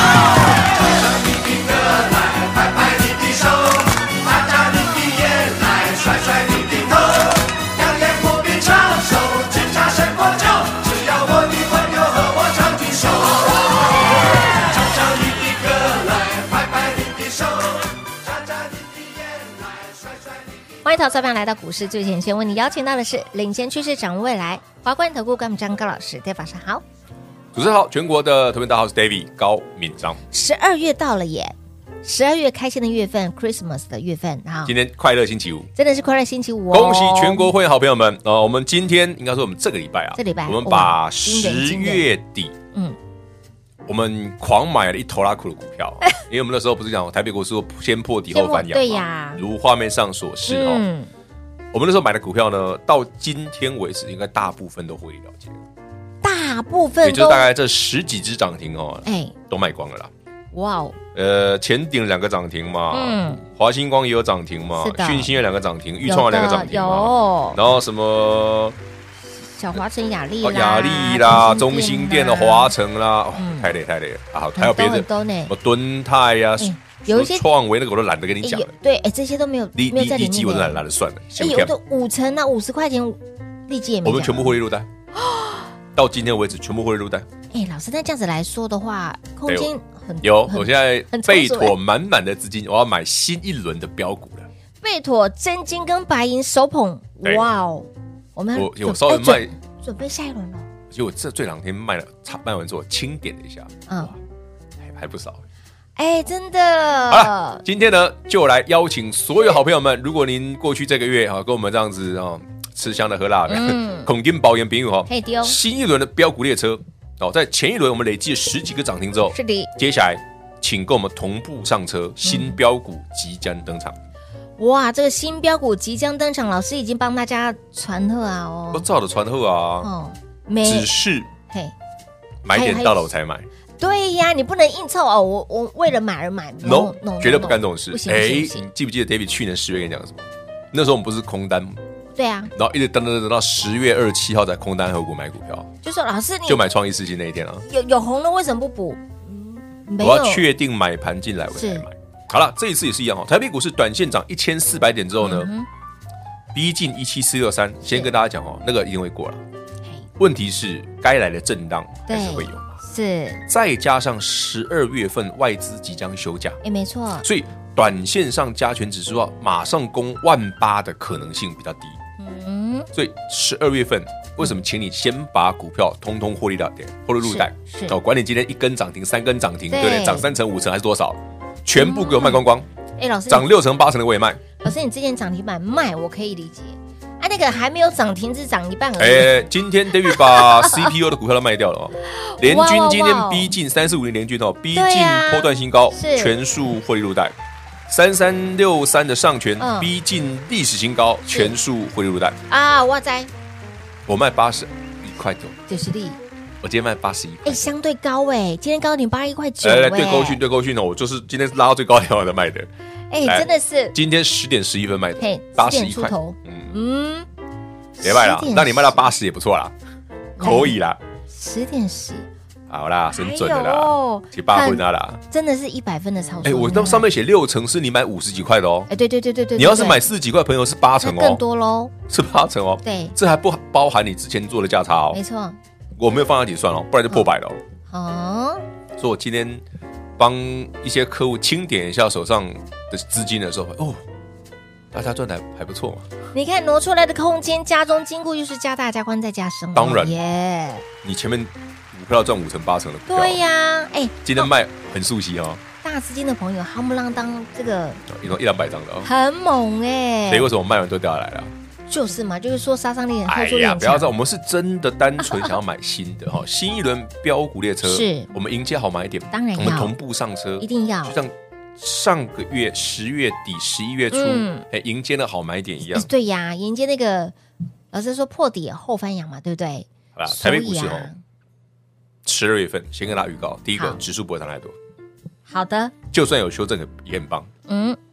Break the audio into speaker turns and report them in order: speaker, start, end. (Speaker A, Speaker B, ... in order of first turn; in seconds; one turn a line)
Speaker A: 0.6-13.5
Speaker A: 14.5-19.8
Speaker B: 20.8-26.8
Speaker C: 27.5-30.2
Speaker B: 30.3-34.7
Speaker C: 34.6-35.7
Speaker B: 35.8-37.5
Speaker C: 36.7-42.5
Speaker B: 40.1-42.1
Speaker C: 43.9-50.8
Speaker B: 48.3-49.4
Speaker B: 50.5-51.1
Speaker C: 51.7-55.6
Speaker B: 56.2-57.5
Speaker C: 57.0-60.1
Speaker B: 59.0-59.3
Speaker B: 60.5-61.0
Speaker C: 61.1-68.8
Speaker B: 62.9-63.4
Speaker B: 64.8-65.3
Speaker B: 66.0-67.6
Speaker B: 69.3-72.7
Speaker C: 70.4-78.7
Speaker B: 73.3-73.7
Speaker B: 74.5-75.5
Speaker B: 76.6-77.5
Speaker B: 78.4-80.8
Speaker C: 79.8-81.7
Speaker B: 81.3-84.6
Speaker C: 84.0-84.9
Speaker B: 85.2-85.7
Speaker C: 86.0-87.2
Speaker B: 87.5-91.7
Speaker C: 90.2-94.5
Speaker B: 94.8-100.7
Speaker C: 98.5-99.5
Speaker C: 100.9-104.2
Speaker C: 104.8-105.4
Speaker B: 106.0-107.6
Speaker C: 107.1-124.0
Speaker B: 113.5-114.1
Speaker B: 115.1-115.6
Speaker B: 119.3-119.7
Speaker B: 122.2-122.6
Speaker B: 124.6-128.8
Speaker C: 128.7-129.9
Speaker B: 129.8-131.0
Speaker C: 130.6-131.3
Speaker B: 131.5-131.7
Speaker C: 132.4-133.5
Speaker B: 132.5-133.1
Speaker B: 133.8-138.7
Speaker C: 136.6-141.8
Speaker B: 142.2-142.5
Speaker C: 142.5-145.7
Speaker B: 145.8-146.6
Speaker C: 146.4-147.6
Speaker B: 147.7-150.5
Speaker C: 150.0-155.5
Speaker B: 151.5-151.8
Speaker B: 155.2-155.7
Speaker C: 156.5-159.4
Speaker B: 157.8-158.1
Speaker C: 160.2-162.8
Speaker B: 162.1-163.4
Speaker C: 163.5-166.6
Speaker B: 166.6-167.2
Speaker C: 167.2-172.0
Speaker B: 172.2-172.9
Speaker C: 172.9-182.7
Speaker B: 177.2-178.0
Speaker B: 179.7-180.3
Speaker B: 181.8-182.4
Speaker B: 183.0-183.5
Speaker C: 183.3-184.4
Speaker B: 184.6-189.4
Speaker C: 189.0-197.3
Speaker B: 190.1-190.9
Speaker B: 192.1-193.5
Speaker B: 194.7-196.4
Speaker C: 197.9-202.4
Speaker B: 199.6-199.9
Speaker B: 201.3-201.6
Speaker B: 202.5-203.3
Speaker C: 204.1-205.6
Speaker B: 205.7-206.2
Speaker C: 206.6-207.7
Speaker B: 207.4-210.4
Speaker C: 209.6-212.7
Speaker B: 213.1-213.9
Speaker C: 213.2-216.7
Speaker B: 215.2-217.3
Speaker B: 218.0-219.1
Speaker C: 218.0-219.7
Speaker B: 220.4-220.8
Speaker C: 220.4-221.0
Speaker B: 221.3-222.3
Speaker C: 222.7-225.2
Speaker B: 223.1-227.1
Speaker C: 226.4-228.9
Speaker B: 228.9-230.0
Speaker C: 229.6-231.4
Speaker B: 231.0-231.9
Speaker C: 232.1-235.2
Speaker B: 232.8-233.2
Speaker B: 235.1-235.6
Speaker C: 236.0-237.6
Speaker B: 237.9-238.6
Speaker C: 239.0-239.6
Speaker C: 240.2-244.0
Speaker C: 244.9-246.0
Speaker B: 246.3-250.8
Speaker C: 249.7-250.2
Speaker C: 251.0-253.4
Speaker B: 253.1-254.5
Speaker C: 254.2-255.6
Speaker B: 255.8-258.0
Speaker C: 258.1-259.1
Speaker B: 259.0-260.5
Speaker C: 260.3-261.5
Speaker B: 261.9-264.1
Speaker C: 263.2-276.1
Speaker B: 267.8-268.3
Speaker B: 269.3-269.9
Speaker B: 270.6-271.1
Speaker B: 274.1-274.6
Speaker B: 275.9-277.3
Speaker B: 277.9-281.2
Speaker C: 280.1-281.1
Speaker C: 282.2-284.8
Speaker B: 285.5-285.9
Speaker C: 286.1-287.5
Speaker B: 287.7-288.0